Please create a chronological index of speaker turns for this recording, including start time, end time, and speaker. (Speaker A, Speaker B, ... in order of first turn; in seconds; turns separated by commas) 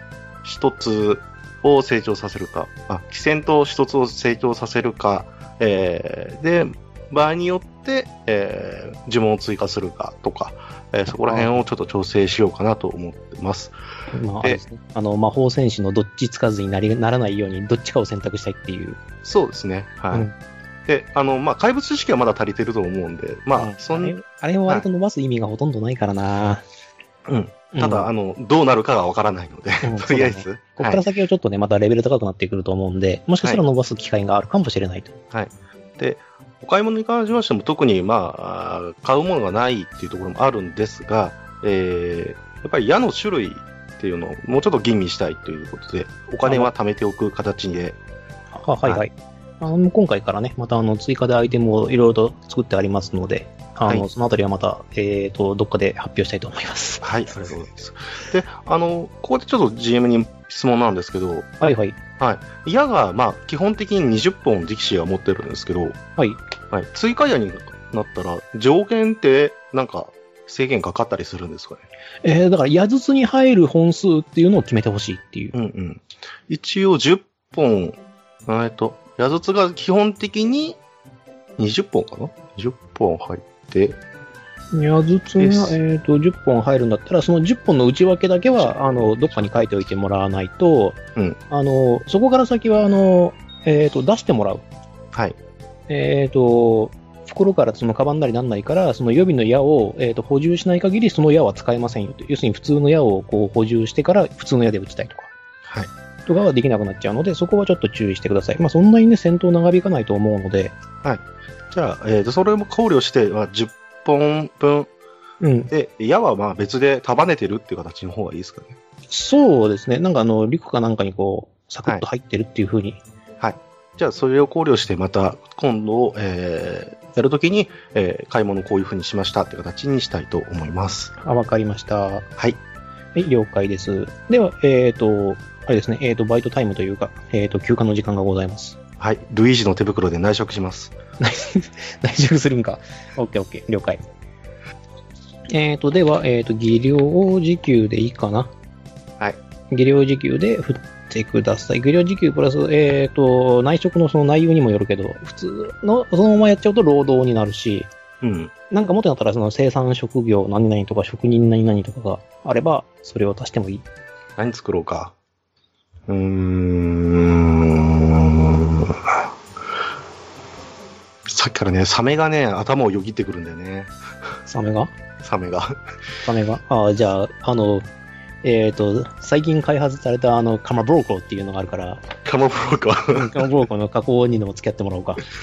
Speaker A: 0.4-13.7, Speaker B: 11.1-11.6, Speaker B: 14.1-19.0, Speaker A: 19.2-20.3, Speaker A: 20.9-24.1, Speaker B: 23.6-26.6, Speaker A: 27.3-31.0, Speaker B: 27.7-28.1, Speaker B: 29.8-35.1, Speaker A: 35.3-48.0, Speaker B: 46.4-46.7, Speaker B: 48.5-57.5, Speaker A: 57.0-61.5, Speaker B: 61.6-62.0, Speaker A: 62.2-66.0, Speaker A: 66.7-71.8, Speaker B: 72.2-75.5, Speaker A: 75.5-80.8, Speaker A: 81.6-84.0, Speaker B: 84.7-94.6, Speaker A: 85.4-85.8, Speaker A: 88.6-89.7, Speaker B: 95.9-105.3, Speaker B: 106.3-110.8, Speaker A: 111.0-114.9, Speaker B: 115.4-115.7, Speaker A: 115.7-118.8, Speaker B: 119.1-123.0, Speaker A: 123.4-131.1, Speaker B: 131.2-132.3, Speaker B: 133.1-138.8, Speaker A: 139.0-140.9, Speaker B: 141.2-144.0, Speaker B: 145.5-148.5, Speaker B: 149.7-157.9, Speaker A: 158.2-158.5, Speaker B: 158.7-163.8, Speaker A: 164.4-165.1, Speaker A: 166.1-169.3, Speaker A: 171.3-173.9, Speaker B: 174.5-174.9, Speaker A: 175.2-175.8, Speaker B: 176.2-177.9, Speaker B: 178.4-182.0, Speaker A: 182.2-183.4, Speaker B: 183.1-185.2